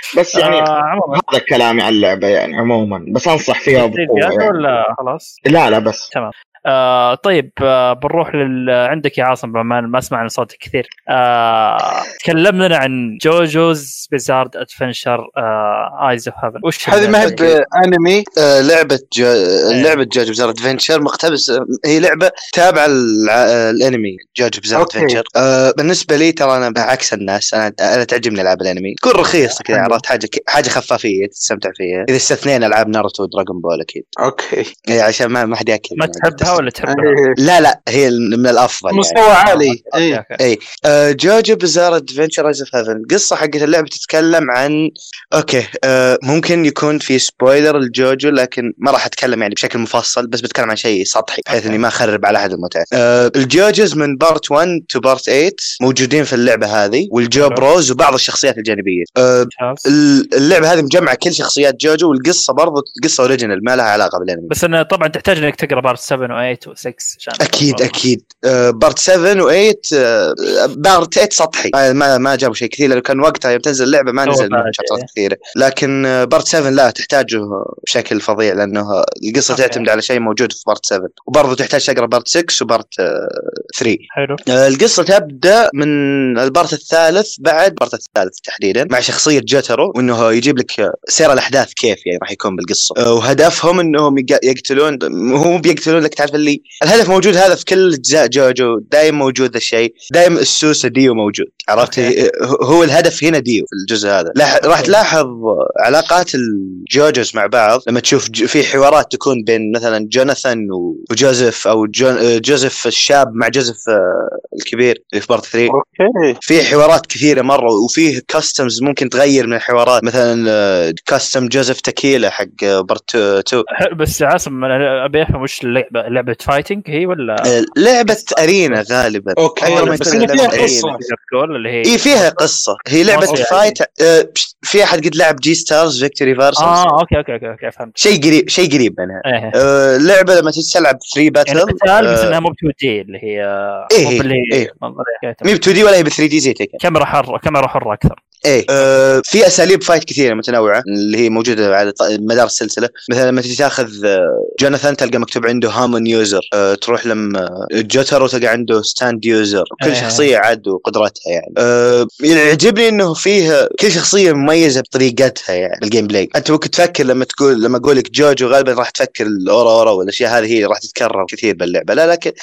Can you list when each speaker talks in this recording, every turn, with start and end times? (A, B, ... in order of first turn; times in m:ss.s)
0:00.1-0:04.5 A
0:00.3-0:01.2 B
0:03.7-0:05.4 B
0:05.4-0:06.0 A
0:06.1-0:17.4 B
0:16.9-0:18.2 C
0:17.2-0:17.6 D
0:18.4-0:34.1 D
0:19.7-0:20.0 B
0:24.8-0:25.2 C
0:29.7-0:30.0 C
0:34.2-0:34.7 C
0:34.9-0:36.6 D
0:36.0-0:37.2 B
0:36.9-0:37.4 C
0:37.4-0:39.8 D
0:38.9-0:40.2 C
0:39.4-0:40.4 B
0:40.4-1:04.5 D
0:51.5-0:51.8 B
0:57.4-0:57.6 B
0:59.5-0:59.8 B
1:04.5-1:08.0 B
1:07.4-1:55.8 D
1:14.2-1:15.1 B
1:19.5-1:19.8 B
1:24.1-1:24.4 B
1:41.8-1:42.1 B
1:44.6-1:45.0 B
1:55.7-1:56.4 C
1:56.4-2:03.6 D
2:03.8-2:07.5 B
2:07.4-2:10.9 D
2:08.1-2:08.8 B
2:09.4-2:11.0 C
2:09.6-2:12.4 B
2:11.8-2:16.8 D
2:13.0-2:13.8 B
2:13.2-2:13.6 C
2:16.6-2:18.0 B
2:18.0-2:22.4 D
2:19.2-2:19.5 B
2:21.5-2:25.5 B
2:23.9-2:24.7 D
2:25.4-2:26.8 D
2:26.8-2:28.2 B
2:28.4-2:52.3 D
2:39.8-2:40.3 B